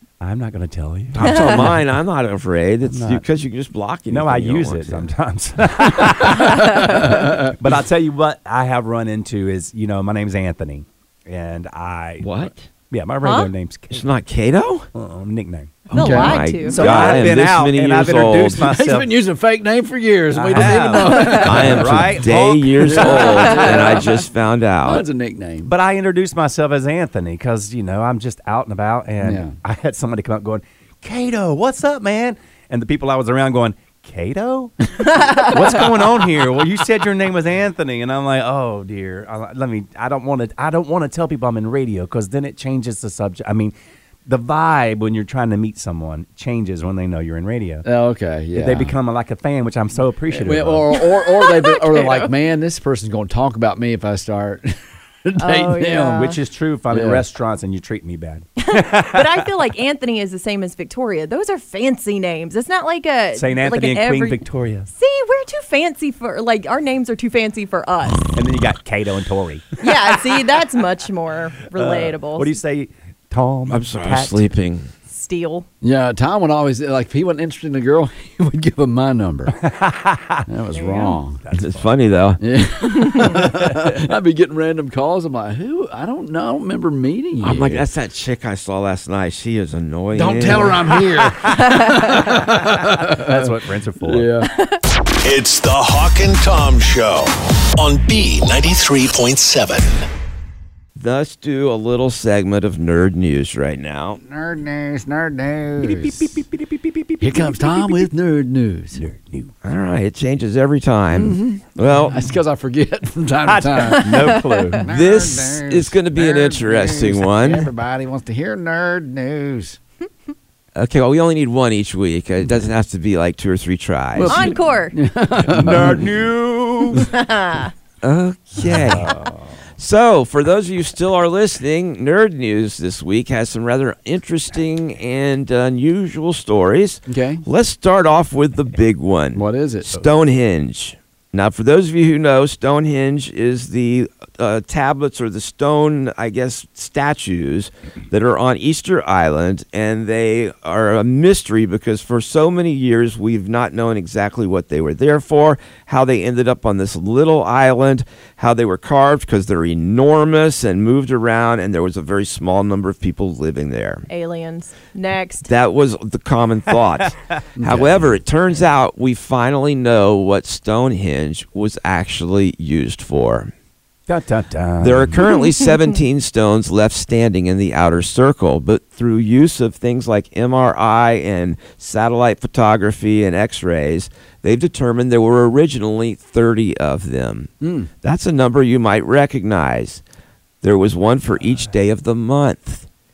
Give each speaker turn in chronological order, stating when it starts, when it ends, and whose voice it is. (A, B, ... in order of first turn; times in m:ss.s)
0:00.2-0:01.8 A
0:01.2-0:05.1 B
0:01.2-0:01.6 C
0:02.9-0:03.2 A
0:04.1-0:14.1 A
0:06.5-0:07.1 C
0:12.2-0:12.6 B
0:13.2-0:13.5 C
0:13.9-0:14.9 B
0:15.0-0:16.0 A
0:15.9-0:16.8 C
0:16.0-0:16.4 D
0:16.0-0:18.6 B
0:16.6-0:19.1 A
0:18.6-0:22.2 D
0:20.3-0:24.0 A
0:21.0-0:21.3 C
0:21.3-0:25.0 B
0:22.8-0:24.2 D
0:24.8-0:25.7 D
0:25.6-0:43.7 A
0:29.2-0:29.5 D
0:44.3-0:47.9 A
0:47.8-0:48.9 D
0:48.5-0:50.9 A
0:50.3-0:56.2 D
0:50.9-0:52.3 C
0:55.4-0:56.4 C
0:56.0-0:59.5 A
0:56.9-0:57.2 D
0:58.6-1:04.4 C
1:03.3-1:04.9 A
1:04.9-1:08.2 C
1:08.3-1:09.8 A
1:09.8-1:12.5 C
1:11.7-1:14.4 A
1:13.7-1:14.9 B
1:15.1-1:15.6 C
1:15.8-1:19.6 D
1:19.6-1:20.5 A
1:20.5-1:21.4 D
1:20.7-1:21.2 C
1:21.5-1:21.9 A
1:21.5-1:22.4 B
1:22.4-1:27.8 D
1:27.4-1:31.0 B
1:30.2-1:34.5 D
1:31.6-1:32.3 C
1:33.1-1:34.3 A
1:34.6-1:34.8 C
1:35.1-1:40.1 E
1:41.0-1:44.2 B
1:44.2-1:46.3 D
1:45.8-1:48.1 A
1:47.2-1:49.0 D
1:49.0-1:49.5 A
1:49.6-1:52.2 B
1:51.1-1:59.8 D
1:53.4-1:54.9 A
1:54.9-1:57.7 B
2:00.8-2:04.6 B
2:04.2-2:06.0 D
2:04.2-2:05.0 C
2:05.5-2:07.1 A
2:07.0-2:07.7 C
2:08.0-2:09.1 B
2:08.6-2:09.5 A
2:09.8-2:44.1 B
2:17.1-2:17.4 D
2:19.4-2:20.0 D
2:44.1-2:45.5 C
2:45.5-2:53.5 B
2:47.6-2:48.1 D
2:54.1-2:55.2 A
2:54.8-3:07.5 B
3:07.6-3:07.9 D
3:08.0-3:10.0 B
3:10.6-3:12.9 B